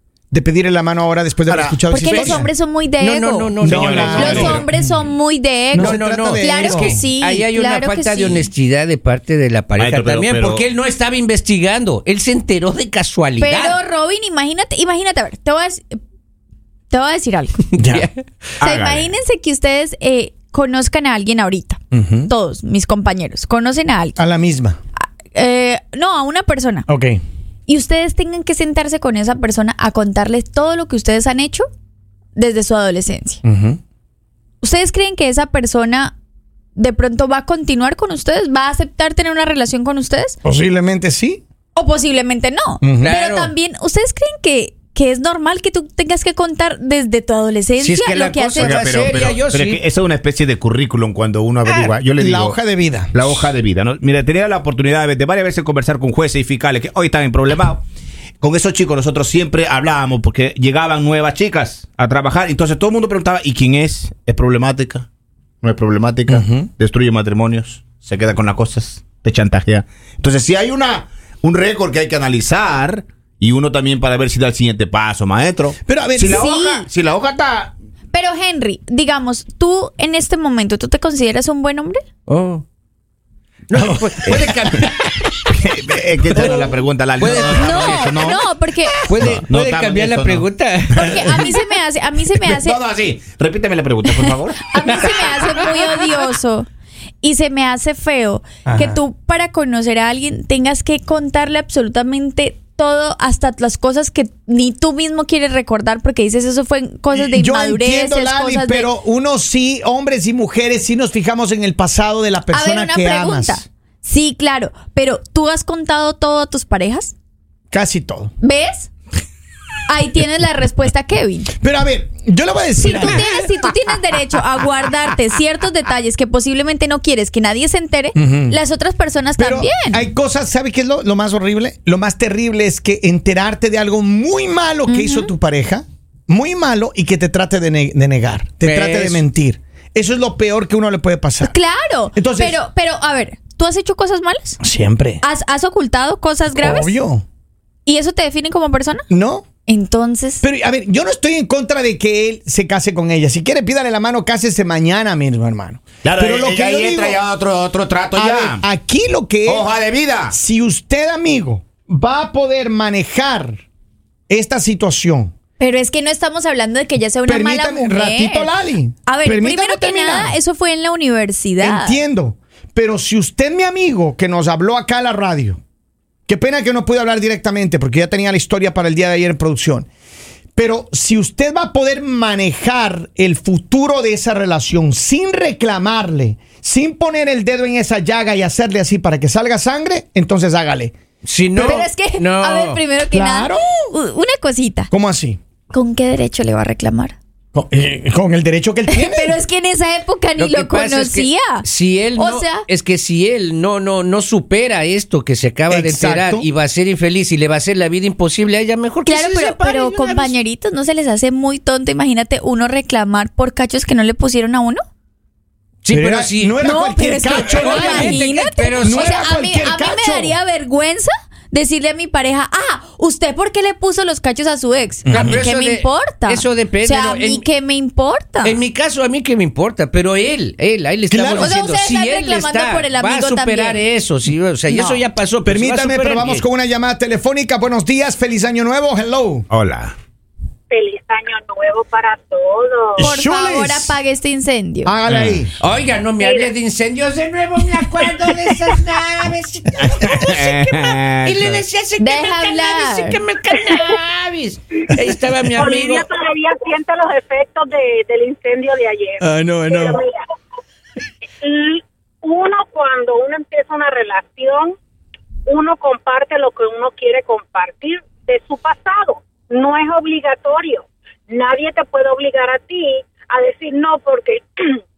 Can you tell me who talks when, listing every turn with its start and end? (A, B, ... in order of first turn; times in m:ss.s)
0:00.3-0:02.5 A
0:01.5-0:02.4 B
0:01.9-0:08.5 C
0:03.0-0:04.6 D
0:03.6-0:04.9 A
0:03.6-0:04.6 B
0:05.7-0:07.0 A
0:05.7-0:13.8 D
0:09.8-0:10.6 B
0:13.4-0:16.0 C
0:16.9-0:17.6 C
0:17.8-0:18.1 A
0:17.8-0:18.2 D
0:18.6-0:19.1 B
0:18.6-0:24.2 C
0:21.9-0:22.3 A
0:24.2-0:24.8 A
0:25.3-0:26.9 C
0:26.9-0:27.2 A
0:27.7-0:31.7 C
0:32.4-0:33.4 C
0:33.4-0:33.8 A
0:34.6-0:36.2 C
0:36.8-0:40.4 C
0:40.4-0:41.4 A
0:41.8-0:48.9 C
0:42.8-0:43.2 A
0:43.0-0:43.5 D
0:47.8-0:49.8 D
0:48.6-0:52.6 B
0:52.2-0:53.1 A
0:53.1-0:57.8 B
0:58.4-1:05.1 B
1:05.6-1:17.7 B
1:06.3-1:06.7 A
1:15.8-1:16.5 A
1:16.3-1:16.9 C
1:18.1-1:22.0 C
1:22.3-1:22.6 D
1:23.7-1:25.3 D
1:23.7-1:24.8 A
1:25.5-1:28.4 B
1:26.3-1:28.2 D
1:26.3-1:26.7 A
1:27.6-1:29.0 C
1:29.0-1:31.5 D
1:29.2-1:30.5 B
1:30.9-1:32.8 C
1:32.4-1:35.2 B
1:34.7-1:36.7 C
1:37.2-1:48.9 C
1:38.6-1:39.0 A
1:47.1-1:53.6 A
1:52.5-1:57.1 C
1:57.7-1:58.3 A
1:58.4-1:58.9 C
1:59.9-2:01.5 C
2:01.6-2:03.4 A
2:02.8-2:10.1 C
2:08.2-2:08.6 A
2:09.4-2:21.5 A
2:14.9-2:15.3 C
2:18.6-2:19.2 D
2:21.4-2:24.6 C
2:22.2-2:22.6 A
2:24.6-2:25.2 A
2:25.2-2:27.0 C
2:26.6-2:27.2 A
2:27.9-2:29.0 C
2:29.1-2:29.5 A
2:29.7-2:30.4 C
2:30.4-2:37.2 A
2:36.0-2:38.6 B
2:38.2-2:39.7 A
2:39.5-2:40.4 B
2:40.3-2:43.6 A
2:44.3-2:45.3 A
2:45.6-2:48.5 C
2:47.3-2:50.4 A
2:49.1-2:52.0 C
2:51.6-2:55.6 A
2:56.3-2:59.9 A
3:00.6-3:11.0 A
3:11.2-3:12.8 D
3:11.5-3:11.8 A
3:11.6-3:14.9 C
3:13.1-3:13.9 A
3:14.9-3:15.4 A
3:15.7-3:17.2 C
3:17.5-3:19.4 A
3:18.9-3:22.7 C
3:20.4-3:30.3 D
3:25.7-3:26.5 A
3:29.1-3:34.8 C
3:35.8-3:36.6 D
3:35.9-3:38.2 A
3:36.6-3:48.6 C
3:37.3-3:39.2 D
3:38.8-3:40.4 A
3:45.1-3:45.4 A
3:45.1-3:47.4 D
3:48.4-3:56.4 D
3:51.1-3:51.5 A
3:51.4-3:53.8 C
3:54.8-3:59.5 A
3:59.5-3:59.9 B
4:00.7-4:03.1 E
4:03.0-4:03.9 A
4:03.0-4:04.9 C
4:04.8-4:05.5 A
4:05.1-4:05.4 B
4:05.6-4:16.1 D
4:06.2-4:06.5 E
4:09.9-4:11.6 B
4:12.0-4:13.2 C
4:15.6-4:20.2 E
4:19.2-4:20.0 A
4:21.4-4:24.8 E
4:25.5-4:34.8 E